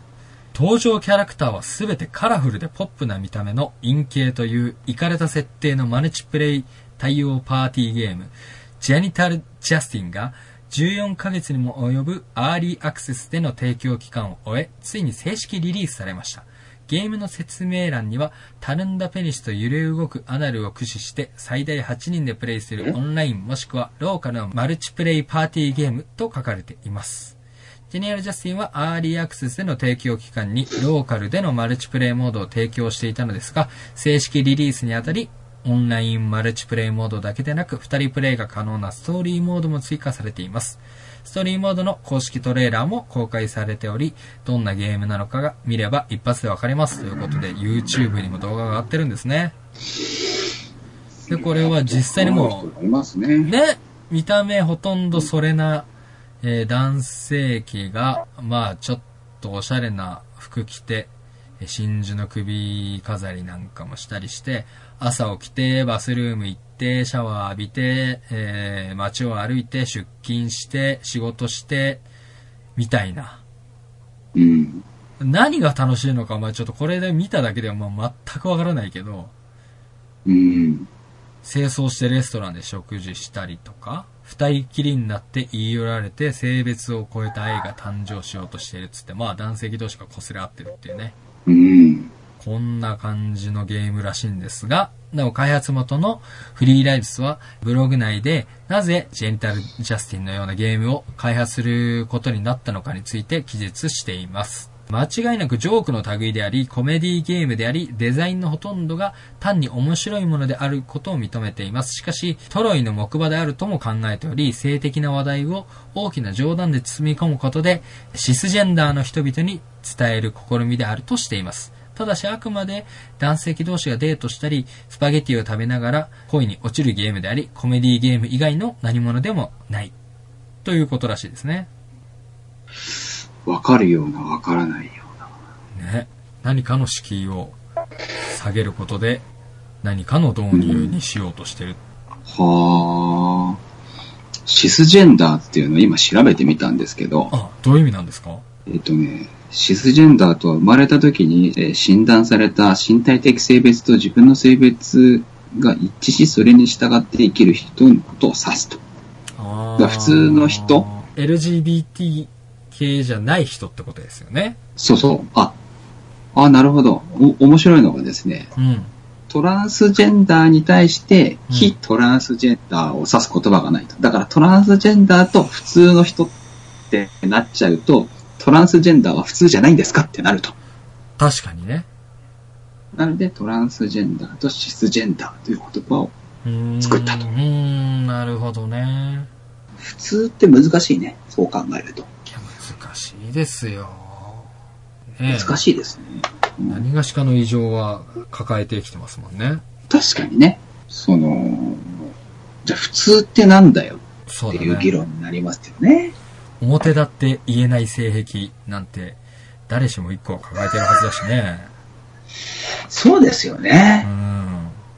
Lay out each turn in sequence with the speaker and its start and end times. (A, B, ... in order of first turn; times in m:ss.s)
0:00.5-0:27.4 A
0:27.9-0:49.6 A
0:51.3-0:53.5 B
0:51.3-0:52.7 A
0:53.4-0:55.9 A
0:56.4-1:12.0 A
1:12.8-1:13.4 A
1:14.4-1:14.8 B
1:15.2-1:19.3 A
1:20.3-1:20.9 B
1:21.4-1:31.2 A
1:31.5-1:32.1 B
1:32.4-2:09.9 A
2:10.6-2:11.7 A
2:12.9-2:15.2 B
2:15.8-2:17.6 A
2:18.3-2:19.2 A
2:19.8-2:21.8 A
2:20.5-2:21.0 B
2:22.3-2:23.6 B
2:24.5-2:27.3 B
2:27.3-2:28.4 A
2:28.7-2:38.8 B
2:39.4-2:44.6 A
2:39.8-2:40.9 B
2:44.8-2:45.6 B
2:46.3-2:48.5 B
2:48.6-2:48.9 A
2:49.3-2:56.3 B
2:51.5-2:51.8 A
2:56.9-3:00.6 B
3:01.2-3:01.9 A
3:02.9-3:06.1 B
3:06.4-3:09.3 A
3:06.8-3:07.2 B
3:09.8-3:12.1 B
3:12.3-3:14.5 A
3:15.2-3:15.6 A
3:15.3-3:16.8 B
3:16.7-3:19.6 A
3:19.9-3:22.1 B
3:22.6-3:24.0 B
3:24.3-3:25.0 A
3:24.5-3:26.2 B
3:26.6-3:31.7 A
3:32.9-3:34.1 B
3:34.0-3:34.8 A